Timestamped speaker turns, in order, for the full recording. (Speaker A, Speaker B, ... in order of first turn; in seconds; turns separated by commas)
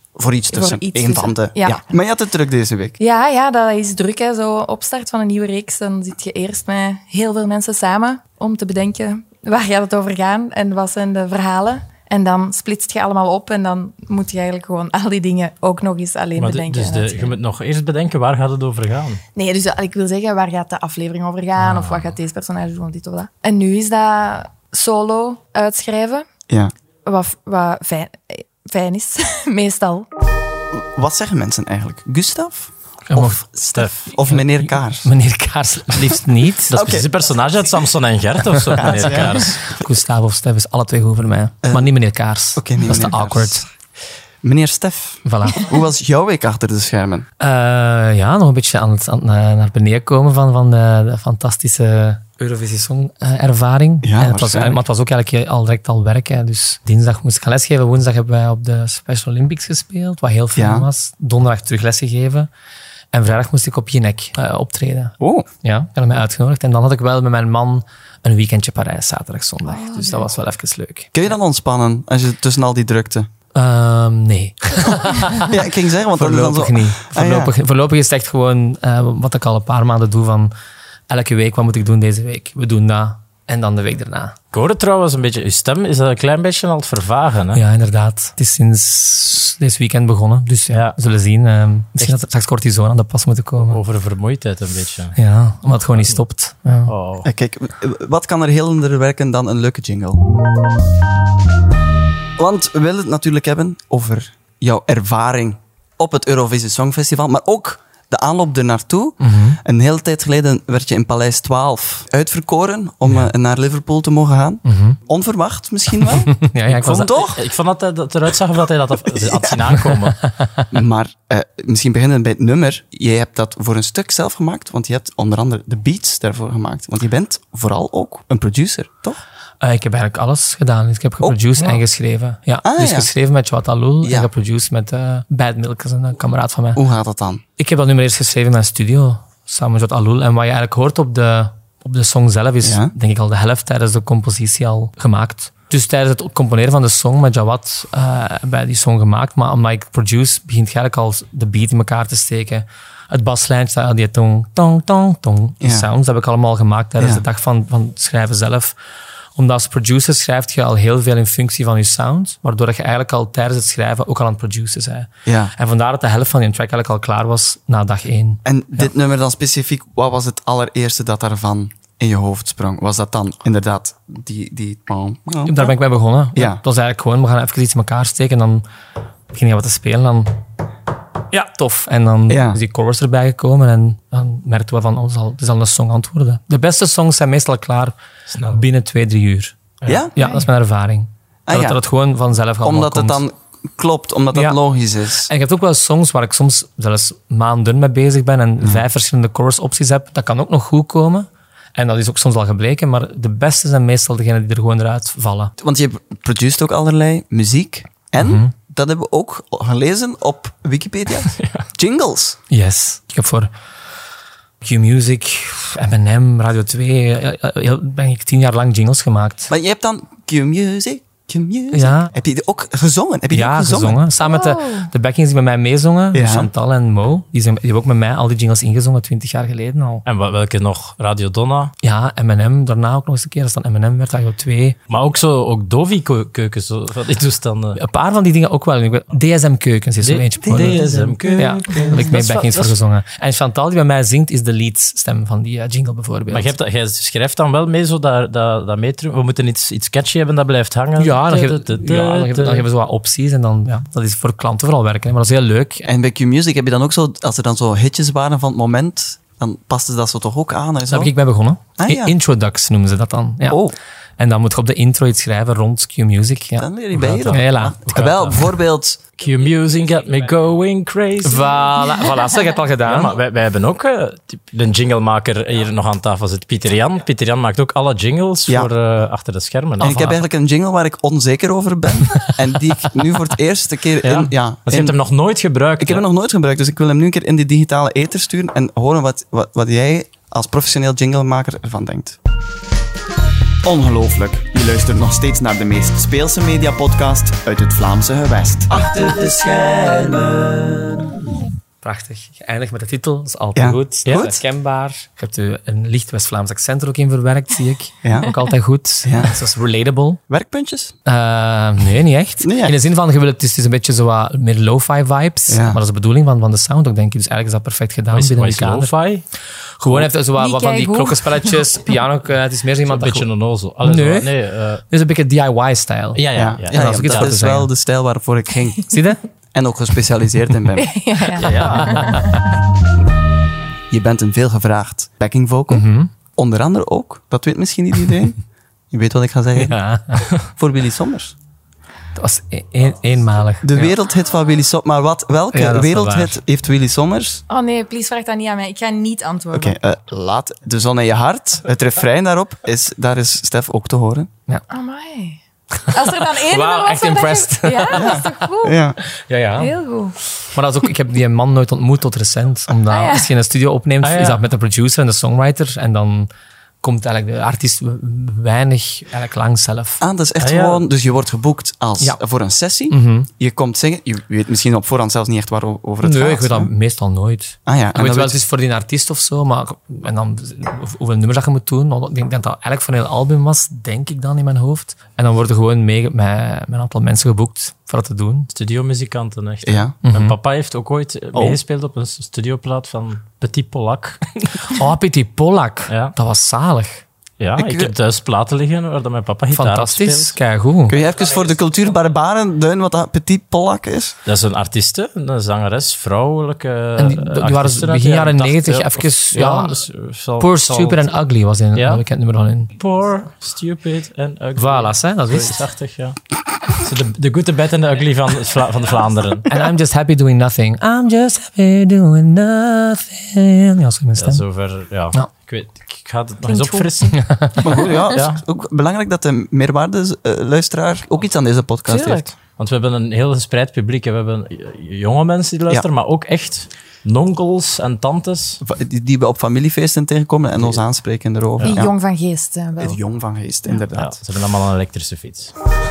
Speaker A: 0.1-3.0, Speaker B: 0.5-1.8, Speaker B: 3.0-17.3, Speaker C: 16.4-19.2, Speaker B: 19.3-26.2, Speaker C: 21.6-22.1, Speaker B: 27.0-30.1, Speaker A: 30.7-35.1, Speaker D: 33.1-33.4, Speaker C: 33.7-34.1, Speaker D: 34.1-36.8, Speaker A: 36.7-37.1, Speaker C: 36.7-39.6, Speaker D: 38.6-43.6, Speaker A: 38.8-39.6, Speaker A: 41.6-41.9, Speaker A: 42.5-43.7, Speaker A: 44.4-47.2, Speaker D: 45.2-45.7, Speaker D: 47.4-62.5, Speaker A: 54.0-54.8, Speaker A: 60.5-60.9, Speaker D: 63.1-71.1, Speaker A: 65.2-65.5, Speaker B: 69.7-70.3, Speaker A: 71.1-73.3, Speaker D: 73.5-75.5, Speaker A: 75.4-77.5, Speaker D: 76.1-80.5, Speaker D: 81.1-84.3, Speaker C: 84.5-87.6, Speaker D: 87.5-93.8, Speaker C: 93.7-95.2, Speaker D: 95.2-96.9, Speaker C: 96.9-97.3, Speaker A: 97.2-100.2, Speaker A: 102.4-117.4, Speaker D: 109.2-109.6, Speaker D: 114.6-115.0, Speaker D: 116.3-117.3, Speaker C: 116.8-120.2, Speaker A: 119.1-119.7, Speaker D: 120.4-120.7, Speaker A: 120.7-129.2, Speaker D: 129.6-136.8, Speaker A: 131.2-131.8, Speaker A: 132.6-133.1, Speaker A: 134.0-134.3, Speaker A: 136.8-137.4, Speaker D: 137.6-158.7, Speaker A: 142.6-142.9, Speaker A: 155.6-155.9, Speaker A: 157.0-157.2, Speaker D: 159.3-168.9, Speaker A: 165.2-165.5, Speaker A: 168.4-175.7, Speaker D: 175.4-178.6, Speaker A: 176.3-176.6, Speaker D: 179.3-180.4, Speaker D: 181.3-187.9, Speaker A: 182.3-182.6, Speaker C: 188.3-188.6, Speaker D: 188.5-189.6, Speaker C: 189.8-190.1, Speaker A: 189.8-190.1, Speaker D: 190.1-193.2, Speaker A: 191.5-191.8, Speaker A: 192.6-195.3, Speaker D: 194.3-194.6, Speaker D: 195.3-205.5, Speaker A: 205.6-212.4, Speaker D: 208.2-208.5, Speaker C: 211.3-211.6, Speaker D: 212.5-213.5, Speaker D: 214.6-219.5, Speaker A: 219.5-224.0, Speaker D: 221.7-222.1, Speaker D: 223.3-230.0, Speaker B: 224.2-224.9, Speaker A: 226.1-226.5, Speaker C: 230.1-231.7, Speaker D: 231.8-234.8, Speaker C: 234.9-237.8, Speaker D: 237.8-240.8, Speaker C: 240.0-242.7, Speaker A: 240.4-242.1, Speaker D: 241.3-246.6, Speaker C: 246.3-252.7, Speaker D: 251.0-255.9, Speaker A: 255.8-261.1, Speaker D: 260.9-263.6, Speaker A: 261.8-262.1, Speaker A: 263.5-263.7, Speaker D: 264.2-266.7, Speaker A: 266.6-269.0, Speaker C: 267.0-268.4, Speaker D: 267.2-268.3, Speaker C: 269.2-271.5, Speaker D: 271.2-273.1, Speaker C: 272.8-280.2, Speaker A: 279.8-284.9, Speaker C: 284.0-286.0, Speaker A: 285.8-292.2, Speaker A: 293.6-301.0, Speaker D: 301.8-310.2, Speaker C: 304.1-304.4, Speaker A: 308.0-308.3, Speaker A: 309.0-309.4, Speaker A: 310.3-310.9, Speaker D: 311.0-318.9, Speaker A: 312.4-312.7, Speaker A: 315.5-315.8, Speaker C: 318.1-319.2, Speaker D: 319.8-323.3, Speaker B: 320.4-321.6, Speaker C: 322.9-324.8, Speaker D: 323.8-324.3, Speaker D: 324.9-327.7, Speaker C: 326.1-327.3, Speaker A: 326.3-328.9, Speaker D: 328.9-329.2, Speaker A: 329.5-330.9, Speaker B: 330.8-332.4, Speaker C: 331.4-332.2, Speaker D: 331.6-332.4, Speaker A: 333.9-338.4, Speaker D: 335.7-336.1, Speaker A: 338.9-339.8, Speaker D: 339.6-340.3, Speaker A: 340.3-341.3, Speaker D: 342.1-343.9, Speaker A: 343.6-347.4, Speaker D: 345.5-346.4, Speaker B: 347.5-349.8, Speaker A: 349.5-354.3, Speaker B: 354.7-358.8, Speaker D: 355.8-358.3, Speaker A: 357.9-359.0, Speaker D: 359.1-359.7, Speaker B: 359.6-360.1, Speaker D: 360.4-366.3, Speaker B: 362.9-363.3, Speaker C: 364.0-364.4, Speaker D: 366.8-370.0, Speaker A: 370.0-376.7, Speaker C: 370.4-370.8, Speaker D: 372.9-373.3, Speaker D: 376.0-388.5, Speaker A: 377.6-378.4, Speaker C: 388.5-394.8, Speaker A: 389.6-389.9, Speaker D: 390.0-390.4, Speaker A: 391.3-391.6, Speaker D: 394.7-397.0, Speaker C: 395.9-396.1, Speaker C: 397.4-400.4, Speaker A: 397.6-397.9, Speaker D: 399.5-401.0, Speaker A: 400.9-404.1, Speaker C: 404.2-411.1, Speaker D: 407.0-409.9, Speaker D: 410.4-412.7, Speaker C: 411.7-412.0, Speaker C: 412.8-416.2, Speaker D: 414.6-415.6, Speaker C: 416.7-419.5, Speaker D: 419.5-424.4, Speaker C: 424.2-428.4, Speaker B: 426.4-427.2, Speaker D: 427.2-427.7, Speaker A: 427.6-432.2, Speaker B: 431.9-432.2, Speaker C: 431.9-438.6, Speaker A: 438.6-441.9, Speaker B: 441.6-443.0, Speaker A: 442.8-444.2, Speaker C: 443.9-445.5